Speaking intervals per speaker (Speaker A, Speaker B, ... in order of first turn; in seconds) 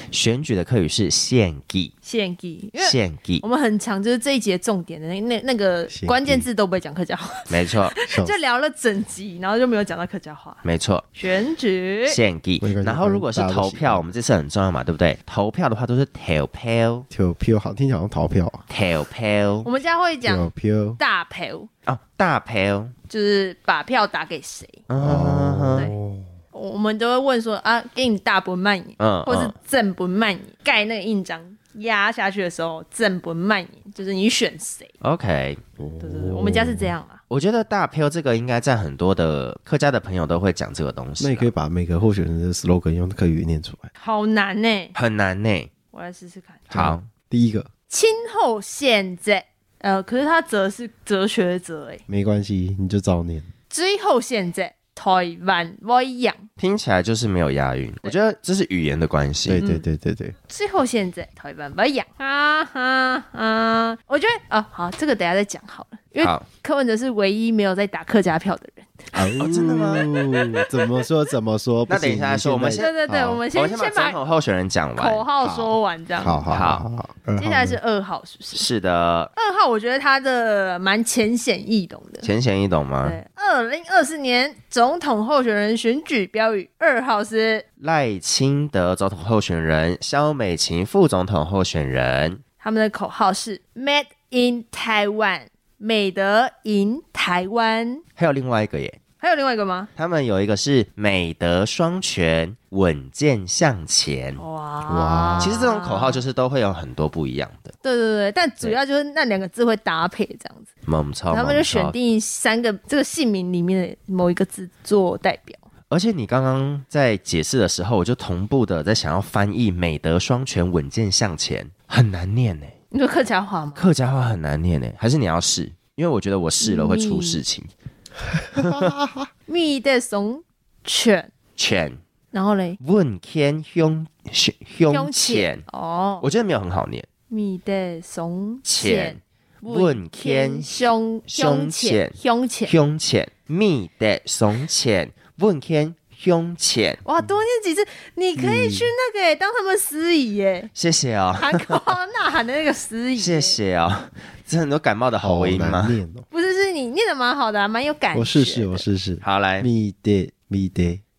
Speaker A: 0.1-1.9, 2.8-3.4, 7.5-8.0, 10.6-11.1, 12.1-17.1, 18.7-19.7, 21.9-22.9, 24.9-25.9, 29.0-29.5, 35.0-35.6, 37.3-41.5, 44.9-45.7, 46.7-47.1, 56.6-59.6, 66.2-66.5, 69.4-70.1, 71.9-73.0, 73.5-75.2, 76.5-76.8, 78.5-79.3, 82.2-83.2, 87.8-92.4, 98.2-99.0, 100.0-104.4, 105.4-107.7, 110.8-112.0, 115.9-122.7, 123.7-127.7, 128.6-128.9, 131.6-132.0, 132.8-135.6, 136.2-137.1, 138.7-140.7, 141.3-142.2, 142.7-147.0, 150.7-151.9, 153.2-156.0, 159.2-159.7
Speaker B: 2.0-10.6, 11.2-12.2, 19.6-20.4, 21.0-21.7, 23.1-24.9, 26.5-34.9, 36.0-37.2, 44.0-44.9, 45.9-46.7, 47.9-52.0, 53.7-56.5, 59.6-59.8, 60.5-69.1, 70.4-70.7, 72.8-74.2, 75.0-76.5, 77.4-78.7, 79.3-82.3, 83.0-87.6, 92.6-98.0, 99.2-99.9, 104.4-106.2, 107.8-110.7, 111.3-115.6, 122.9-123.8, 126.6-127.4, 129.5-131.3, 132.3-132.8, 134.9-136.2, 137.3-142.7, 147.0-150.7, 151.4-153.6, 156.3-158.8
Speaker C: 5.9-6.5, 8.0-8.3, 12.6-14.1, 17.1-18.6, 20.2-21.0, 25.0-26.3, 35.8-36.9, 41.2-43.9, 46.7-47.7, 52.1-53.5, 59.5-60.4, 69.1-73.4, 75.4-77.8, 104.8-105.6, 128.4-129.3, 148.3-148.9, 155.2-156.2, 158.1-161.0